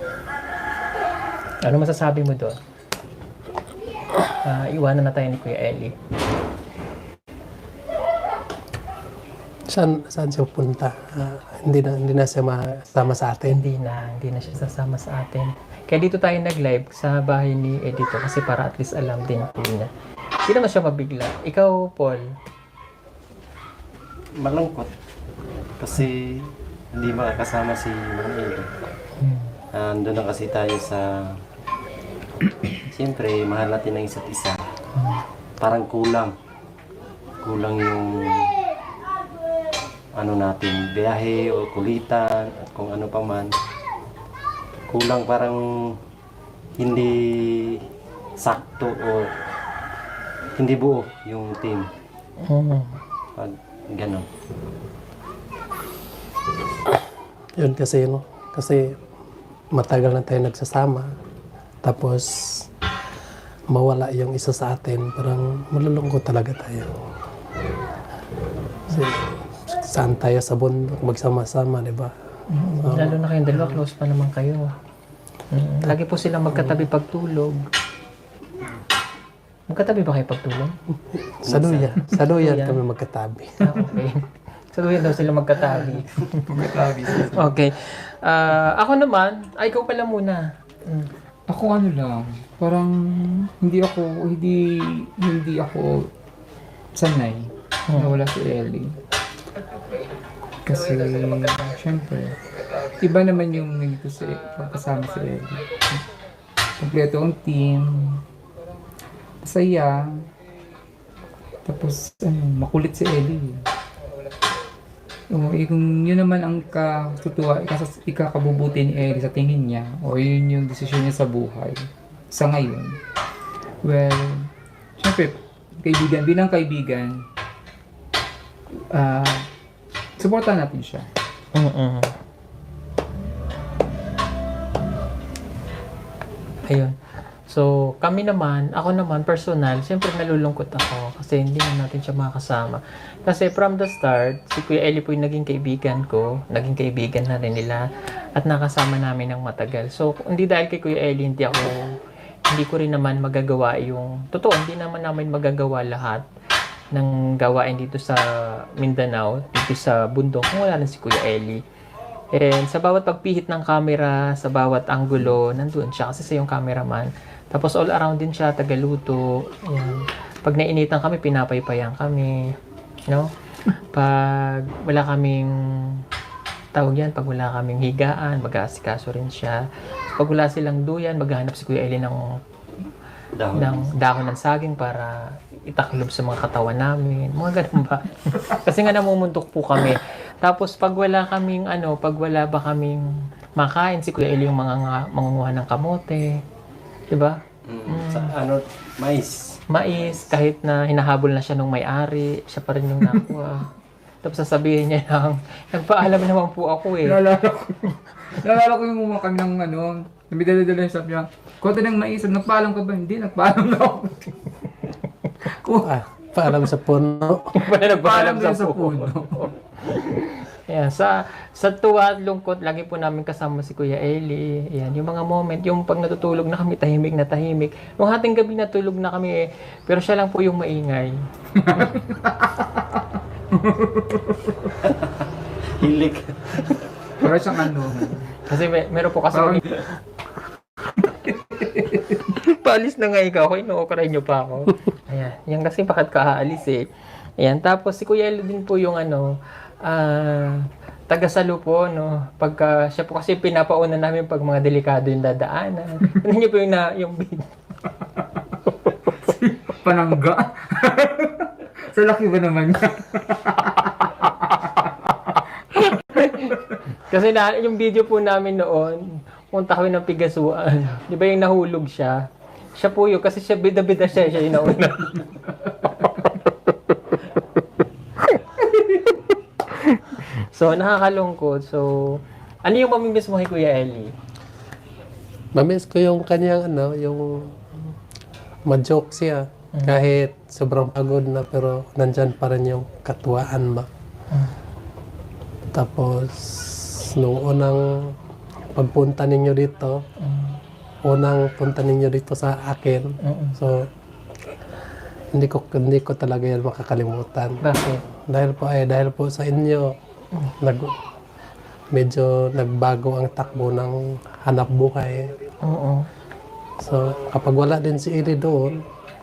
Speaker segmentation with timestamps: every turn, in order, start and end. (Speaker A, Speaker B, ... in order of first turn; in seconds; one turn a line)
Speaker A: 1.6-2.6
Speaker A: 4.4-5.9
Speaker B: 9.7-13.6
Speaker A: 13.5-19.9
Speaker A: 20.4-22.3
Speaker C: 24.4-24.9
Speaker C: 25.8-28.7
Speaker A: 29.2-29.5
Speaker C: 29.7-31.3
Speaker C: 32.8-34.6
Speaker A: 35.0-35.2
Speaker C: 35.6-36.3
Speaker C: 37.4-38.5
Speaker C: 40.1-43.5
Speaker C: 44.9-45.9
Speaker C: 46.8-47.8
Speaker C: 48.4-49.3
Speaker C: 50.6-51.9
Speaker A: 52.4-53.0
Speaker C: 53.4-54.2
Speaker B: 57.6-58.9
Speaker B: 59.7-61.1
Speaker B: 61.8-62.6
Speaker B: 63.7-66.9
Speaker B: 68.9-72.1
Speaker A: 72.5-74.8
Speaker B: 72.8-73.8
Speaker A: 75.5-77.7
Speaker B: 76.5-76.8
Speaker A: 79.7-80.8
Speaker B: 81.4-83.7
Speaker C: 81.5-81.9
Speaker A: 82.3-82.8
Speaker A: 83.6-84.2
Speaker A: 84.7-86.6
Speaker D: 86.5-87.5
Speaker A: 87.3-91.1
Speaker D: 91.5-96.1
Speaker D: 96.9-99.0
Speaker A: 97.9-98.1
Speaker D: 100.6-106.0
Speaker D: 106.8-108.2
Speaker D: 109.4-110.2
Speaker D: 111.6-113.6
Speaker D: 115.3-123.0
Speaker D: 123.8-127.2
Speaker D: 128.7-129.5
Speaker D: 130.2-131.1
Speaker A: 131.6-132.1
Speaker A: 136.7-136.9
Speaker A: 137.5-147.8
Speaker A: 148.4-156.2
Speaker A: 156.9-161.6
Speaker A: 162.3-172.4
Speaker A: 173.1-176.0
Speaker A: 176.8-179.6
Speaker A: 180.1-182.2
Speaker C: 183.4-183.9
Speaker A: 183.6-193.0
Speaker A: 193.6-196.3
Speaker A: 197.1-198.3
Speaker C: 197.7-199.6
Speaker A: 199.7-203.7
Speaker A: 204.2-207.2
Speaker D: 207.0-214.8
Speaker D: 215.4-215.9
Speaker B: 215.8-217.5
Speaker A: 217.6-231.1
Speaker D: 217.6-219.5
Speaker D: 231.6-234.8
Speaker C: 235.7-236.8
Speaker D: 237.2-238.4
Speaker A: 238.4-239.8
Speaker D: 239.3-239.8
Speaker D: 241.2-242.1
Speaker A: 242.1-246.8
Speaker A: 247.4-257.4
Speaker D: 259.1-266.8
Speaker A: 265.8-272.2
Speaker A: 272.8-276.3
Speaker A: 278.2-284.1
Speaker B: 285.6-287.9
Speaker B: 288.6-293.9
Speaker B: 295.7-298.1
Speaker B: 298.8-300.0
Speaker A: 300.2-300.6
Speaker B: 301.0-303.9
Speaker A: 303.2-303.6
Speaker B: 305.4-309.9
Speaker A: 307.6-308.0
Speaker B: 310.6-310.9
Speaker B: 311.9-315.3
Speaker A: 315.6-316.1
Speaker B: 316.8-318.8